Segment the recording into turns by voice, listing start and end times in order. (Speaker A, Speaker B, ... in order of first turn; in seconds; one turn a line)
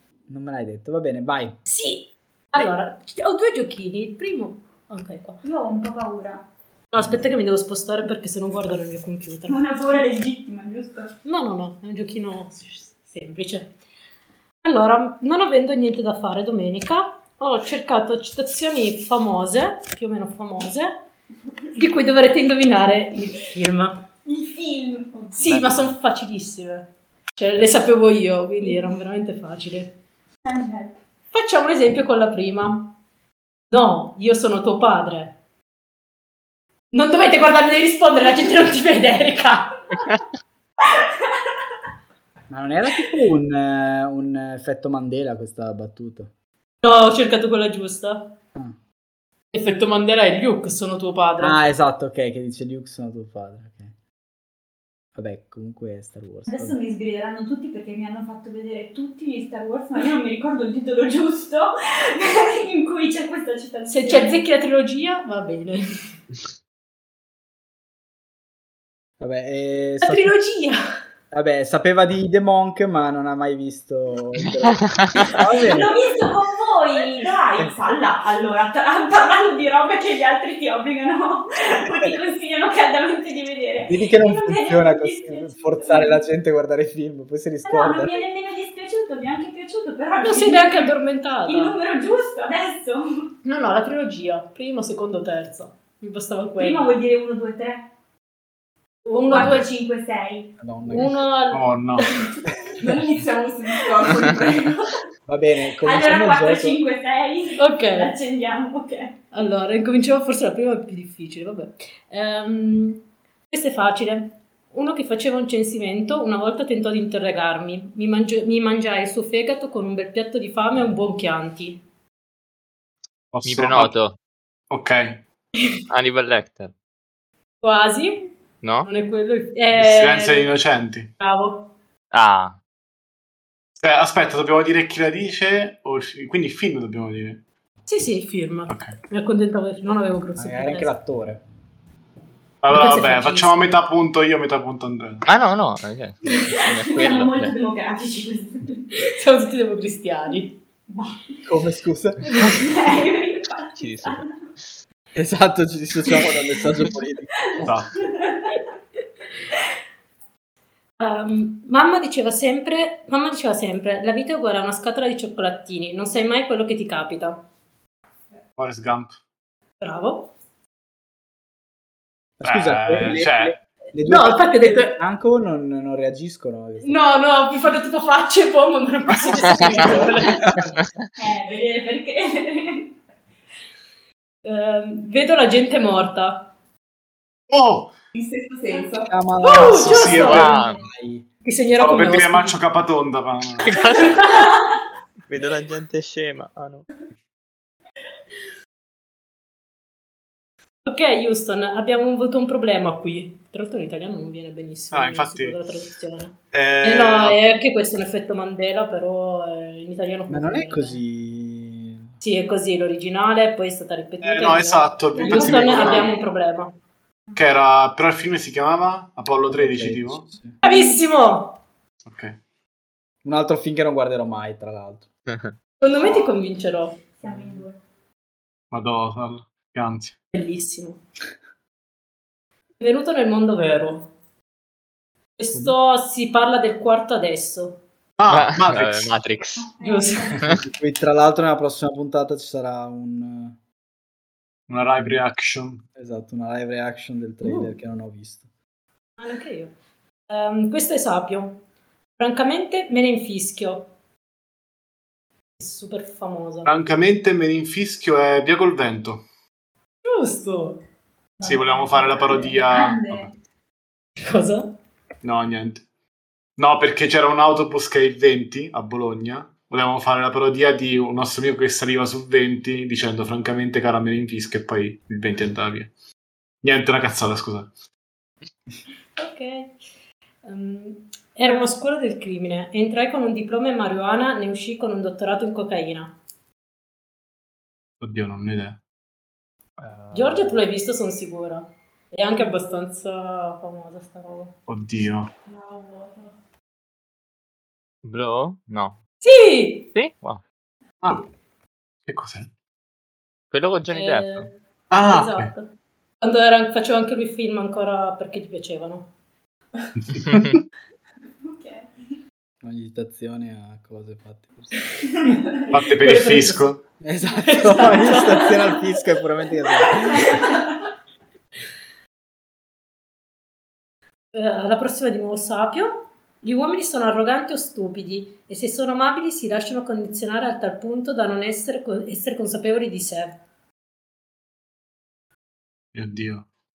Speaker A: 0.3-1.6
Speaker B: 1.7-5.4
Speaker C: 5.4-6.4
Speaker B: 6.9-9.6
Speaker C: 9.5-11.2
Speaker B: 11.2-13.7
Speaker B: 14.6-20.9
Speaker B: 21.7-24.0
Speaker C: 24.2-25.4
Speaker B: 25.3-29.9
Speaker D: 25.5-25.8
Speaker C: 30.4-30.9
Speaker B: 31.3-32.9
Speaker B: 33.7-35.4
Speaker B: 36.9-39.8
Speaker A: 42.5-46.3
Speaker B: 46.8-48.3
Speaker B: 49.5-51.6
Speaker A: 51.4-53.9
Speaker A: 55.1-56.8
Speaker C: 56.5-64.4
Speaker B: 63.9-66.1
Speaker A: 69.2-70.4
Speaker B: 70.0-70.8
Speaker A: 71.3-75.9
Speaker D: 74.9-75.3
Speaker C: 75.5-86.2
Speaker A: 83.9-88.2
Speaker C: 87.7-93.3
Speaker B: 90.2-91.8
Speaker B: 93.4-97.0
Speaker C: 96.6-97.9
Speaker B: 99.0-99.7
Speaker C: 99.2-100.6
Speaker A: 100.6-101.2
Speaker B: 100.9-102.3
Speaker E: 101.5-102.1
Speaker F: 102.8-104.9
Speaker A: 105.3-106.8
Speaker C: 105.8-109.2
Speaker B: 107.6-108.1
Speaker B: 109.3-121.8
Speaker E: 123.3-124.0
Speaker D: 123.4-124.2
Speaker E: 124.7-125.2
Speaker D: 125.9-126.7
Speaker B: 127.6-128.3
Speaker D: 128.6-128.9
Speaker B: 128.8-130.5
Speaker E: 129.7-131.1
Speaker B: 131.2-131.7
Speaker D: 132.1-132.6
Speaker E: 133.8-137.4
Speaker B: 137.9-140.9
Speaker E: 138.7-138.9
Speaker A: 140.4-141.4
Speaker E: 142.6-145.3
Speaker B: 142.7-143.8
Speaker D: 145.3-147.5
Speaker C: 146.3-149.0
Speaker B: 148.9-150.6
Speaker C: 150.9-151.5
Speaker A: 151.4-152.3
Speaker B: 152.3-152.6
Speaker C: 152.3-154.5
Speaker D: 153.8-154.3
Speaker A: 155.1-157.7
Speaker C: 157.6-158.6
Speaker E: 157.6-157.9
Speaker B: 161.0-167.4
Speaker E: 168.6-169.2
Speaker B: 169.8-170.3
Speaker A: 172.4-177.0
Speaker E: 172.4-173.6
Speaker B: 174.0-175.0
Speaker B: 176.8-180.7
Speaker A: 179.8-180.7
Speaker C: 181.2-182.9
Speaker B: 184.4-186.5
Speaker E: 187.5-187.9
Speaker F: 188.1-189.1
Speaker A: 189.1-191.3
Speaker B: 189.4-190.6
Speaker E: 189.6-190.7
Speaker D: 190.3-190.8
Speaker B: 191.4-192.6
Speaker E: 191.8-193.8
Speaker D: 193.6-194.5
Speaker B: 193.9-194.5
Speaker D: 195.3-196.9
Speaker B: 200.8-211.0
Speaker E: 204.9-205.6
Speaker E: 206.5-207.4
Speaker A: 210.3-212.1
Speaker B: 212.2-216.7
Speaker E: 214.2-216.1
Speaker C: 215.1-216.2
Speaker D: 215.7-216.1
Speaker E: 217.3-220.2
Speaker A: 219.5-220.6
Speaker B: 220.6-221.6
Speaker C: 220.6-220.9
Speaker E: 222.0-222.4
Speaker A: 223.2-225.1
Speaker D: 225.3-225.6
Speaker B: 225.8-227.0
Speaker C: 226.0-226.4
Speaker C: 227.1-227.8
Speaker A: 227.3-227.6
Speaker E: 228.7-230.1
Speaker B: 230.3-231.0
Speaker B: 232.8-234.1
Speaker B: 235.4-237.8
Speaker E: 238.2-239.2
Speaker D: 238.3-239.7
Speaker C: 239.6-240.4
Speaker B: 239.8-240.3
Speaker A: 240.4-243.6
Speaker E: 244.7-245.8
Speaker A: 245.9-248.5
Speaker B: 247.4-247.7
Speaker B: 249.2-249.7
Speaker B: 250.3-251.6
Speaker B: 252.2-253.9
Speaker B: 255.6-256.7
Speaker E: 256.6-259.2
Speaker B: 260.1-260.8
Speaker B: 261.4-262.0
Speaker E: 261.4-263.3
Speaker C: 261.9-263.3
Speaker B: 264.2-264.7
Speaker E: 265.2-265.8
Speaker E: 266.6-275.9
Speaker E: 276.6-277.7
Speaker B: 279.2-279.8
Speaker B: 280.4-286.1
Speaker E: 288.0-288.8
Speaker D: 289.8-290.6
Speaker B: 290.1-294.6
Speaker E: 294.7-295.3
Speaker B: 295.5-296.2
Speaker D: 298.0-299.0
Speaker B: 299.2-299.9
Speaker D: 299.9-300.4
Speaker E: 302.1-302.5
Speaker D: 303.5-304.5
Speaker B: 303.9-305.7
Speaker E: 304.9-305.5
Speaker B: 306.2-309.1
Speaker E: 310.0-310.5
Speaker C: 311.4-311.9
Speaker A: 312.6-314.8
Speaker C: 315.1-315.6
Speaker E: 315.7-316.8
Speaker B: 315.7-316.7
Speaker A: 317.0-320.4
Speaker B: 317.4-318.8
Speaker C: 319.9-320.7
Speaker B: 320.3-320.6
Speaker B: 324.3-333.4
Speaker E: 335.9-336.5